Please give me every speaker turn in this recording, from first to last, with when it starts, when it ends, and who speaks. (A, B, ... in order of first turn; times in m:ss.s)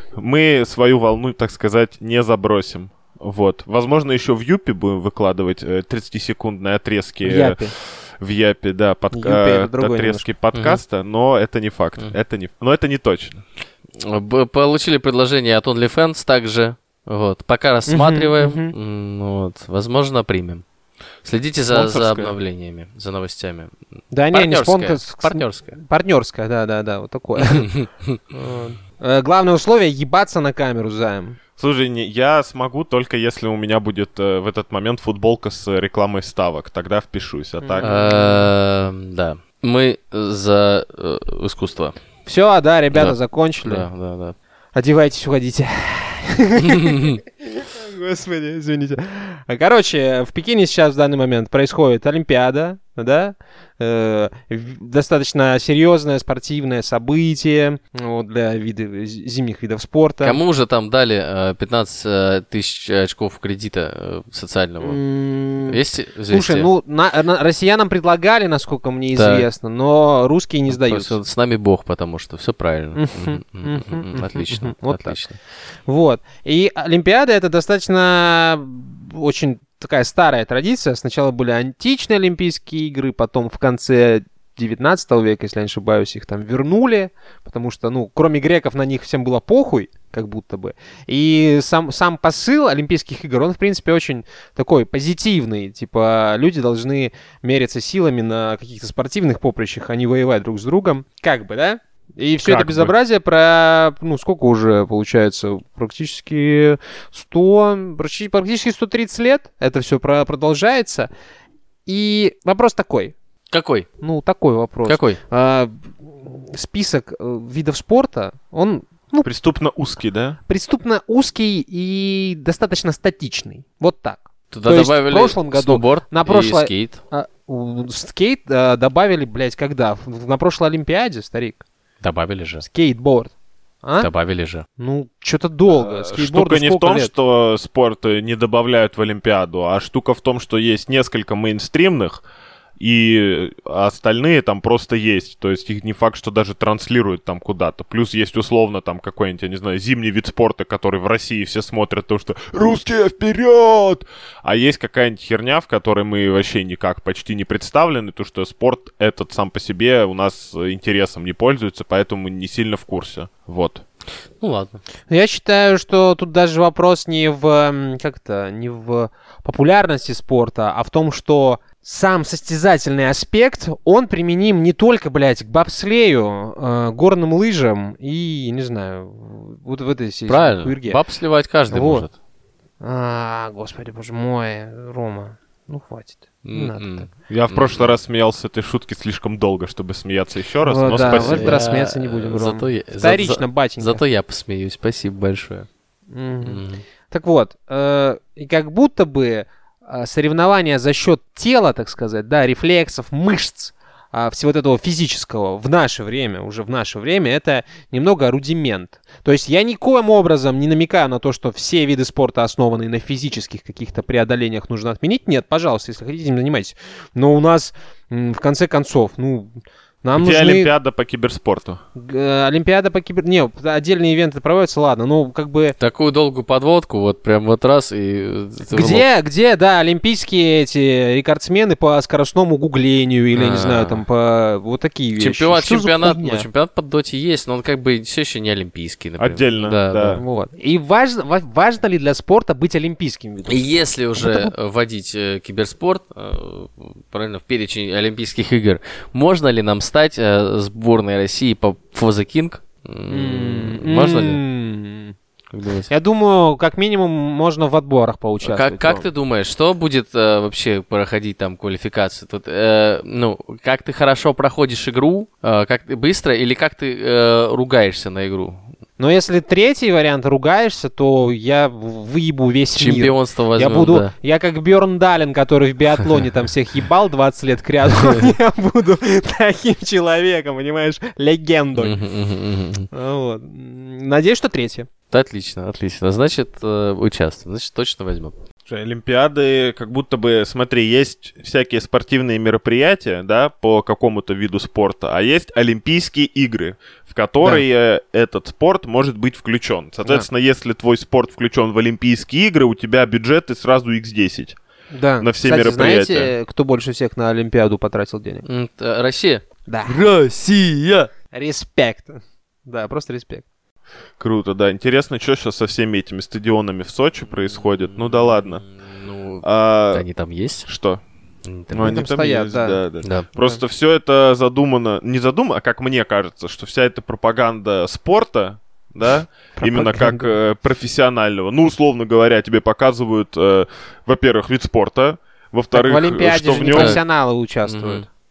0:00.2-0:13.4 A
0:07.2-0:07.7 B
0:09.1-0:10.3 B
0:10.5-0:10.8 C
0:14.0-0:20.6 C
0:17.9-0:18.7 B
0:21.2-0:23.7 C
0:21.7-0:22.4 A
0:24.1-0:27.7 B
0:24.3-0:25.8 C
0:27.4-0:28.2 C
0:28.3-0:31.4 B
0:31.6-0:37.9 A
0:37.6-0:38.5 B
0:37.8-0:42.0 C
0:42.2-0:43.9 B
0:42.9-0:44.4 C
0:44.7-1:00.4 B
1:00.2-1:05.0 C
1:04.8-1:11.2 B
1:05.7-1:06.7 C
1:09.1-1:09.5 C
1:10.7-1:15.4 C
1:13.0-1:15.2 B
1:15.9-1:51.1 B
1:42.4-1:42.9 A
1:51.8-1:53.1 B
1:53.5-1:53.9 C
1:54.0-1:59.3 B
1:54.8-1:55.2 C
1:59.2-2:00.4 A
2:00.5-2:11.6 B
2:04.5-2:07.0 C
2:12.0-2:12.6 C
2:12.6-2:13.3 B
2:13.8-2:14.1 B
2:14.0-2:14.6 C
2:14.8-2:17.1 B
2:15.7-2:22.2 A
2:22.8-2:43.8 A
2:44.4-2:44.8 C
2:45.1-3:01.0 B
3:00.3-3:02.1 C
3:01.7-3:02.0 B
3:02.8-3:07.1 B
3:06.4-3:07.9 C
3:07.3-3:11.6 A
3:10.6-3:14.0 B
3:11.0-3:15.7 C
3:16.1-3:40.7 B
3:16.4-3:16.8 C
3:40.2-3:41.8 A
3:42.0-3:45.7 B
3:45.8-3:49.1 C
3:48.7-3:56.5 B
3:53.3-3:54.0 C
3:55.2-4:00.2 C
3:59.2-4:00.2 A
4:00.2-4:04.5 B
4:03.5-4:14.4 C
4:13.1-4:15.1 B
4:15.5-4:15.9 C
4:15.9-4:19.1 B
4:18.4-4:28.6 C
4:29.0-4:42.0 B
4:32.8-4:34.1 C
4:37.9-4:38.4 C
4:41.8-4:42.9 C
4:42.9-4:44.9 B
4:45.1-4:48.4 C
4:48.7-5:04.6 A
5:04.9-5:08.4 B
5:05.2-5:06.3 A
5:08.4-5:11.1 C
5:09.7-5:10.0 B
5:11.3-5:13.4 B
5:14.2-5:18.6 A
5:17.5-5:20.7 C
5:19.4-5:20.0 A
5:20.7-5:21.0 A
5:21.4-5:22.0 C
5:21.7-5:37.0 A
5:21.8-5:22.8 B
5:23.0-5:23.3 C
5:29.6-5:30.3 B
5:35.7-5:38.1 B
5:36.8-5:37.0 C
5:37.6-5:38.0 C